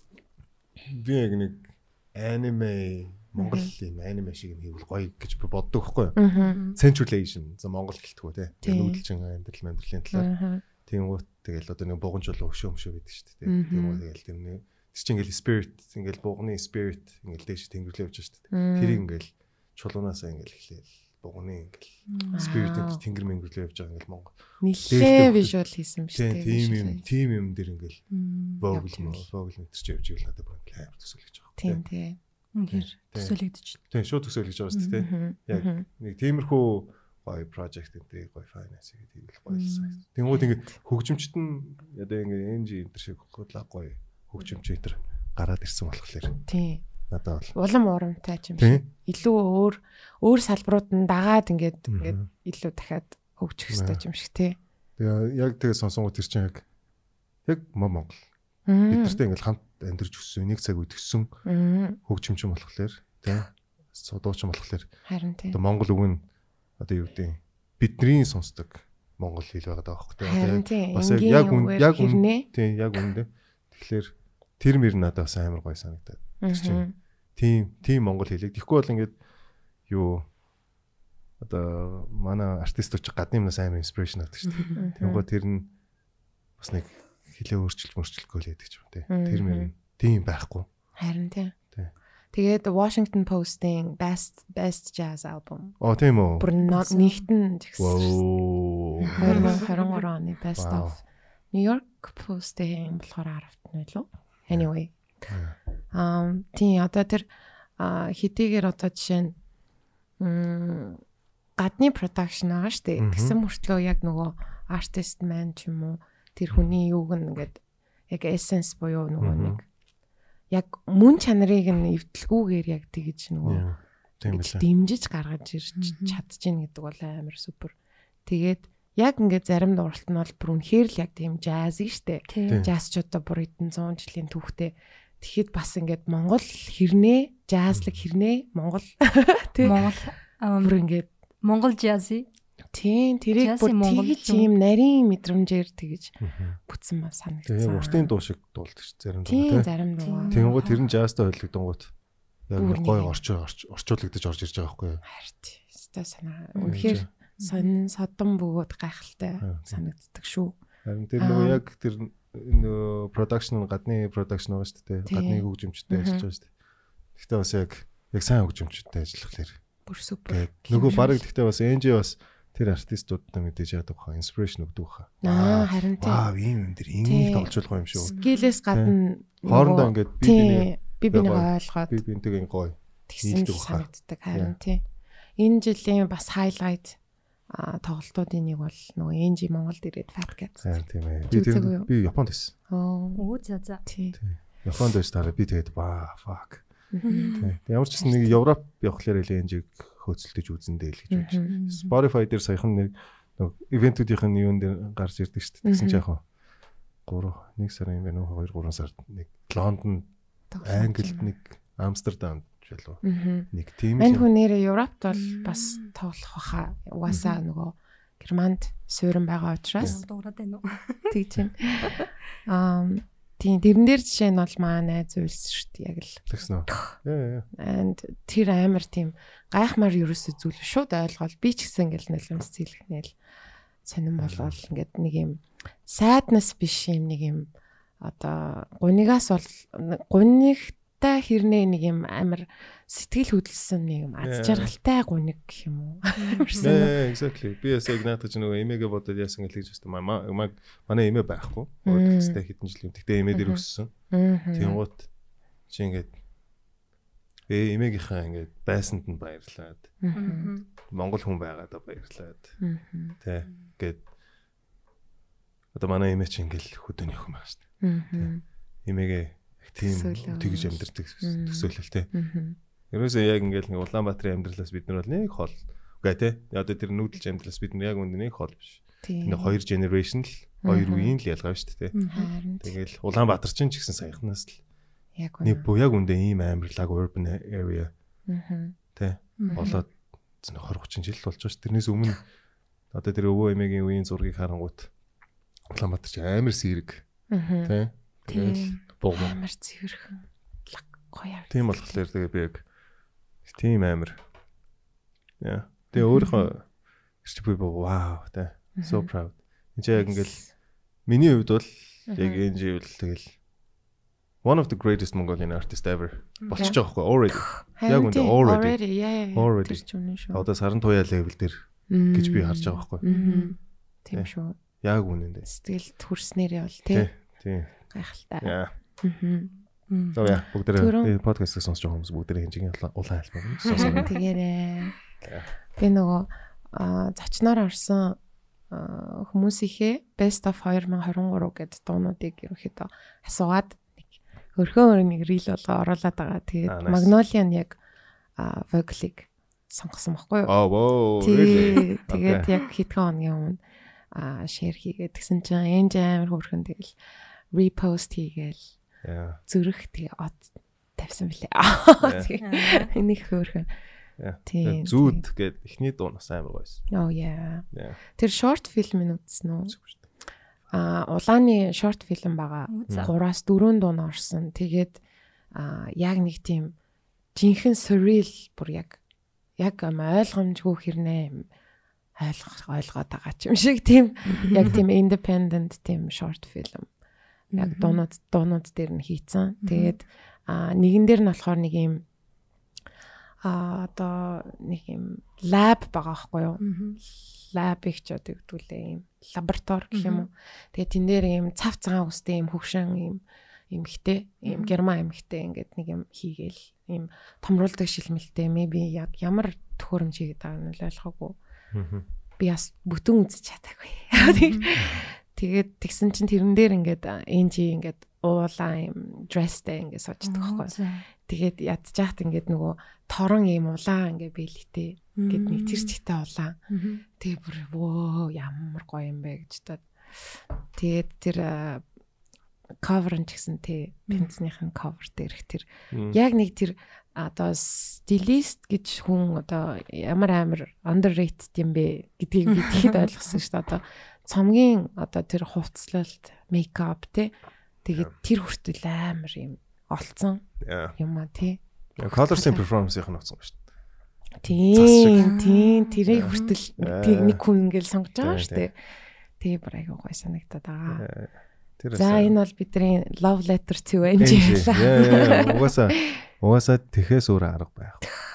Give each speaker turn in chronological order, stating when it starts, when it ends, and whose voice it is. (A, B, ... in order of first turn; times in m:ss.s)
0:00.8-0:10.3 A
0:03.4-0:03.7 B
0:06.2-0:06.6 B
0:06.5-0:06.8 C
0:08.6-0:09.0 B
0:10.1-0:10.6 B
0:10.8-0:24.4 A
0:13.5-0:14.0 B
0:18.5-0:19.0 B
0:22.1-0:22.5 C
0:22.3-0:23.0 B
0:24.6-0:27.1 B
0:24.9-0:25.5 A
0:26.2-0:28.0 A
0:28.1-0:28.6 C
0:28.6-0:31.8 A
0:28.7-0:29.3 B
0:31.6-0:32.2 B
0:32.6-0:33.8 C
0:32.7-0:33.4 A
0:33.9-0:46.4 A
0:34.7-0:35.0 C
0:35.0-0:35.9 B
0:46.5-0:46.8 B
0:47.1-0:47.6 A
0:47.6-0:54.6 B
0:48.6-0:48.9 A
0:51.9-0:52.3 A
0:53.7-0:54.0 A
0:55.0-0:56.6 A
0:57.5-0:58.2 A
0:58.7-0:59.2 B
0:58.9-1:01.4 A
1:01.4-1:02.0 B
1:02.1-1:04.9 A
1:05.1-1:05.6 B
1:05.5-1:06.2 A
1:06.8-1:16.8 A
1:10.2-1:12.5 B
1:16.4-1:16.9 B
1:17.4-1:19.2 A
1:19.9-1:20.3 A
1:21.4-1:25.7 A
1:24.8-1:25.2 B
1:26.6-1:30.7 A
1:29.1-1:29.7 B
1:31.0-1:31.6 B
1:32.3-1:35.8 B
1:35.8-1:36.5 A
1:36.4-1:38.2 B
1:36.7-1:37.2 C
1:37.8-1:39.6 A
1:39.0-1:39.7 C
1:39.2-1:41.0 B
1:40.6-1:41.0 A
1:41.5-1:45.0 B
1:45.3-1:45.6 A
1:45.9-1:47.3 B
1:47.8-1:49.4 B
1:50.2-1:51.0 B
1:51.6-1:59.6 B
1:53.0-1:53.4 A
1:59.2-1:59.6 A
2:00.5-2:03.6 B
2:03.4-2:04.7 A
2:04.2-2:07.7 B
2:05.8-2:06.2 C
2:08.3-2:19.8 B
2:12.3-2:12.6 C
2:19.6-2:20.8 C
2:20.6-2:21.1 B
2:21.4-2:22.3 C
2:22.7-2:28.1 B
2:23.4-2:24.5 C
2:26.2-2:26.6 A
2:27.5-2:29.7 A
2:29.3-2:30.4 B
2:30.0-2:30.9 C
2:30.3-2:31.9 A
2:32.5-2:35.0 A
2:32.6-2:33.2 B
2:35.0-2:40.6 B
2:36.6-2:37.7 C
2:36.6-2:37.1 A
2:39.4-2:39.8 A
2:40.8-2:46.5 A
2:41.2-2:41.6 B
2:45.1-2:46.3 B
2:47.2-2:49.6 A
2:49.9-2:51.2 B
2:50.3-2:58.2 A
2:55.2-2:56.3 B
2:57.0-3:02.0 B
2:58.1-2:58.6 C
2:58.7-3:04.6 A
3:03.1-3:04.8 B
3:05.4-3:07.0 B
3:07.5-3:11.9 B
3:10.6-3:12.5 A
3:12.7-3:13.2 B
3:13.2-3:13.8 C
3:13.9-3:14.2 B
3:14.6-3:16.7 A
3:16.9-3:17.4 B
3:17.0-3:17.5 C
3:17.4-3:26.2 A
3:21.1-3:21.5 B
3:21.5-3:21.9 C
3:25.6-3:26.0 B
3:27.1-3:30.1 A
3:30.5-3:31.3 B
3:30.6-3:34.3 A
3:33.0-3:40.0 B
3:35.1-3:35.9 C
3:39.8-3:41.1 C
3:41.1-3:46.9 B
3:46.3-3:47.5 A
3:47.5-3:53.2 B
3:53.8-3:57.5 B
3:54.2-3:54.6 A
3:58.0-4:07.0 B
4:04.2-4:04.7 A
4:06.2-4:06.8 C
4:06.6-4:13.9 A
4:11.9-4:12.4 B
4:13.3-4:14.8 B
4:14.6-4:15.1 A
4:15.7-4:16.1 A
4:17.5-4:19.9 A
4:20.0-4:20.5 B
4:20.2-4:20.6 C
4:20.9-4:22.6 A
4:22.6-4:23.2 B
4:23.2-4:24.0 A
4:25.7-4:27.6 A
4:27.8-4:28.4 B
4:28.9-4:32.1 A
4:29.8-4:32.6 B
4:32.9-4:42.0 A
4:39.0-4:39.6 B
4:40.6-4:41.2 B
4:41.9-4:42.3 C
4:42.1-4:42.8 B
4:42.6-4:44.6 A
4:45.2-4:45.7 B
4:45.4-4:47.9 A
4:48.3-4:48.8 B
4:49.0-4:49.9 A
4:49.4-4:49.8 C
4:49.5-4:49.8 B
4:50.4-4:52.2 A
4:52.9-4:54.9 A
4:55.7-4:57.1 A
4:57.3-4:57.7 B
4:57.6-4:59.4 A
4:58.3-4:58.8 C
4:59.1-5:01.9 B
5:01.5-5:02.6 A
5:03.4-5:04.2 A
5:05.4-5:06.7 A
5:07.2-5:10.4 A
5:08.8-5:09.1 B
5:10.0-5:10.5 B
5:11.1-5:13.4 A
5:12.1-5:12.4 B
5:14.4-5:18.8 A
5:16.4-5:16.8 C
5:17.4-5:20.4 B
5:19.3-5:23.0 A
5:21.9-5:24.6 B
5:23.1-5:23.6 C
5:24.8-5:25.5 A
5:25.5-5:27.1 B
5:26.9-5:27.7 A
5:27.9-5:29.5 B
5:28.4-5:28.7 A
5:29.9-5:30.4 C
5:30.1-5:34.1 A
5:30.8-5:31.1 B
5:33.7-5:34.1 C
5:33.7-5:35.0 B
5:35.2-5:35.5 A
5:35.8-5:38.2 B
5:38.7-5:47.8 B
5:46.7-5:47.1 A
5:48.4-5:50.5 B
5:50.5-5:52.5 A
5:51.2-5:53.6 B
5:54.1-5:56.9 B
5:57.5-5:58.7 B
5:59.0-5:59.4 A
5:59.5-6:03.7 B
6:02.0-6:02.3 A
6:02.4-6:02.9 C
6:04.2-6:06.8 A
6:04.5-6:05.2 B
6:06.9-6:09.8 B
6:07.7-6:08.0 A
6:10.7-6:15.0 B
6:12.7-6:13.1 C
6:15.5-6:16.8 B
6:17.4-6:19.0 B
6:19.6-6:21.5 B
6:22.2-6:26.9 B
6:27.5-6:28.0 C
6:27.6-6:32.0 B
6:29.6-6:29.9 C
6:33.4-6:51.4 B
6:36.6-6:37.0 C
6:39.9-6:40.3 C
6:44.5-6:44.8 C
6:51.7-6:52.0 A
6:52.4-7:06.6 B
6:54.2-6:54.7 C
6:54.8-6:55.0 A
7:00.3-7:01.0 C
7:05.2-7:06.0 C
7:06.7-7:07.0 C
7:07.1-7:11.8 B
7:12.8-7:30.4 B
7:15.9-7:16.2 A
7:22.6-7:22.9 C
7:30.6-7:31.0 A
7:31.0-7:32.6 B
7:32.0-7:33.6 A
7:34.4-7:38.8 B
7:34.7-7:35.4 A
7:35.1-7:36.5 C
7:36.1-7:37.4 A
7:38.2-7:38.7 A
7:39.4-7:41.0 B
7:40.9-7:42.4 A
7:41.9-7:46.2 B
7:44.2-7:48.0 A